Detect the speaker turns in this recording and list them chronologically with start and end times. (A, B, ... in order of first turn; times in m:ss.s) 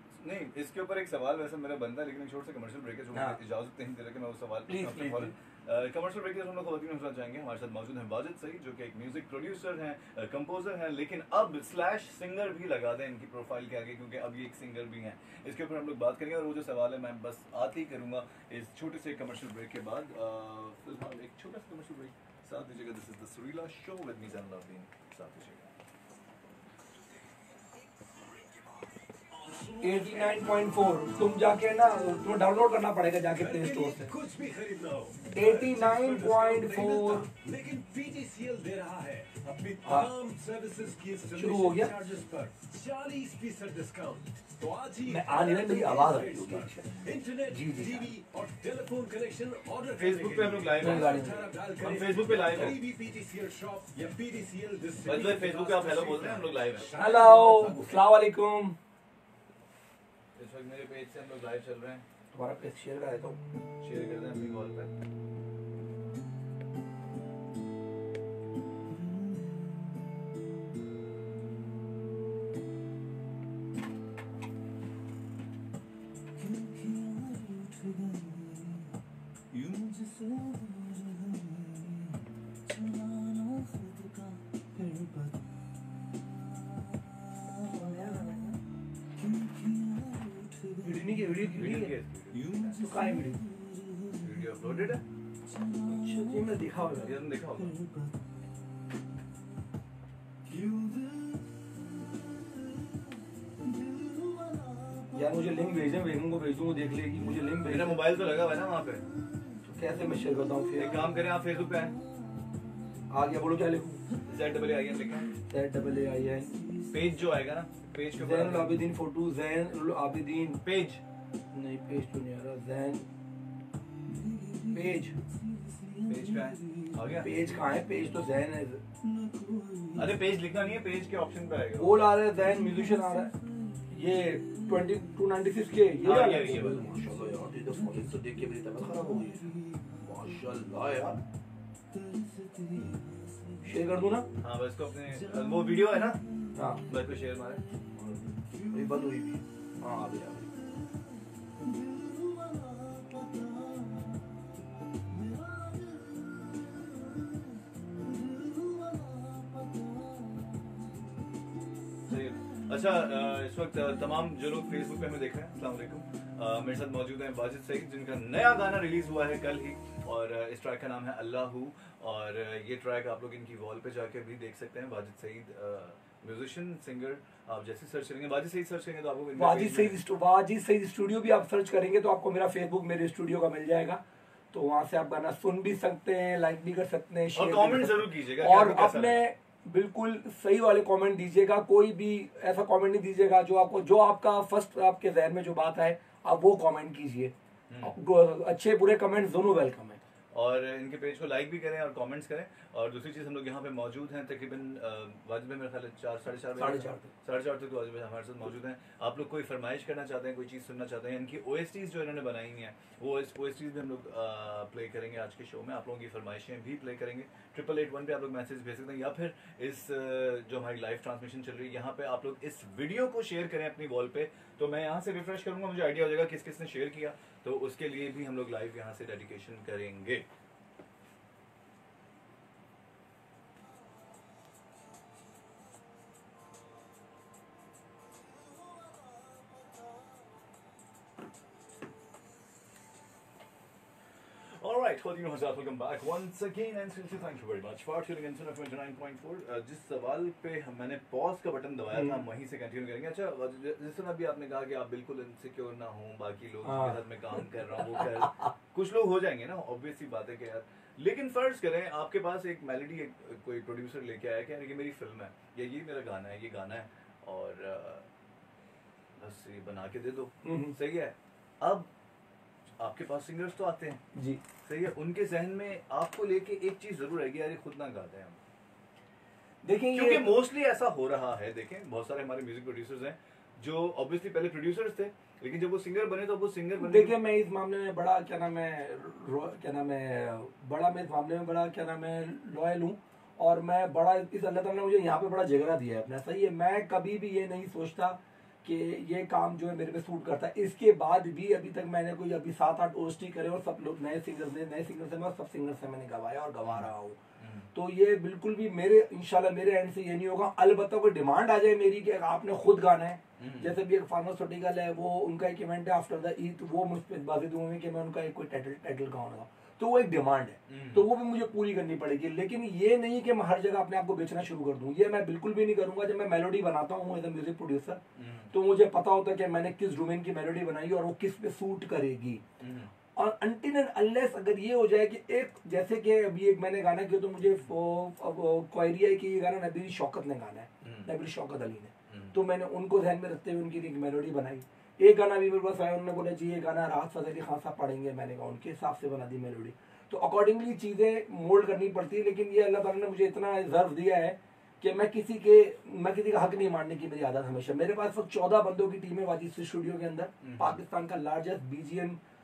0:00.2-0:25.7 A
0:03.1-0:03.4 B
0:04.7-0:05.3 B
0:29.4-0:30.8 C
0:29.8-0:34.1 B
0:33.3-0:58.0 C
0:35.3-0:37.3 B
0:39.8-0:40.1 B
0:41.4-0:41.9 B
0:45.0-0:48.1 B
0:49.9-0:52.8 A
0:50.8-0:51.5 B
0:55.0-0:56.9 A
0:56.9-0:58.8 B
1:00.4-1:02.0 A
1:02.3-1:03.4 B
1:03.8-1:04.9 A
1:16.5-1:18.8 A
1:19.5-1:22.0 A
1:22.9-1:24.1 A
1:27.6-1:28.6 B
1:29.4-1:30.6 C
1:30.8-1:31.9 B
1:31.5-1:32.8 A
1:32.7-1:33.4 B
1:34.1-1:35.0 A
1:35.8-1:37.2 B
1:36.8-1:37.8 A
1:40.6-1:40.9 C
1:45.1-1:48.0 B
1:47.6-1:49.1 A
1:49.6-1:51.1 B
1:50.8-1:52.0 A
1:53.1-1:54.0 B
1:54.2-1:55.4 A
1:55.5-1:56.6 B
1:56.9-1:58.8 A
1:58.2-2:00.6 B
2:00.6-2:01.0 A
2:01.5-2:03.0 B
2:04.7-2:05.2 B
2:06.0-2:07.3 A
2:07.2-2:08.8 B
2:09.9-2:12.0 A
2:11.8-2:21.2 B
2:16.0-2:16.9 A
2:23.6-2:24.3 B
2:24.4-2:26.3 A
2:26.5-2:26.8 B
2:26.9-2:27.7 A
2:27.9-2:30.5 B
2:42.1-3:00.0 A
2:59.4-3:04.0 B
3:04.5-3:20.0 B
3:07.3-3:09.2 A
3:17.7-3:17.9 A
3:20.3-3:50.2 A
3:26.6-3:27.1 B
4:04.4-4:28.0 A
4:11.9-4:12.2 B
4:16.6-4:17.4 B
4:18.0-4:18.5 B
4:29.2-4:31.9 A
4:30.4-4:30.8 B
4:32.8-4:34.0 A
4:34.1-4:34.4 B
4:34.6-4:38.4 A
4:39.6-4:40.3 B
4:39.9-4:47.2 A
4:46.8-5:07.2 B
5:06.6-5:07.7 A
5:07.7-5:28.0 B
5:13.4-5:13.8 A
5:20.7-5:21.1 A
5:28.2-5:28.5 A
5:28.5-5:32.4 B
5:32.6-5:32.9 A
5:33.2-6:02.2 B
5:40.8-5:41.1 A
5:42.1-5:42.4 A
6:00.4-6:00.8 A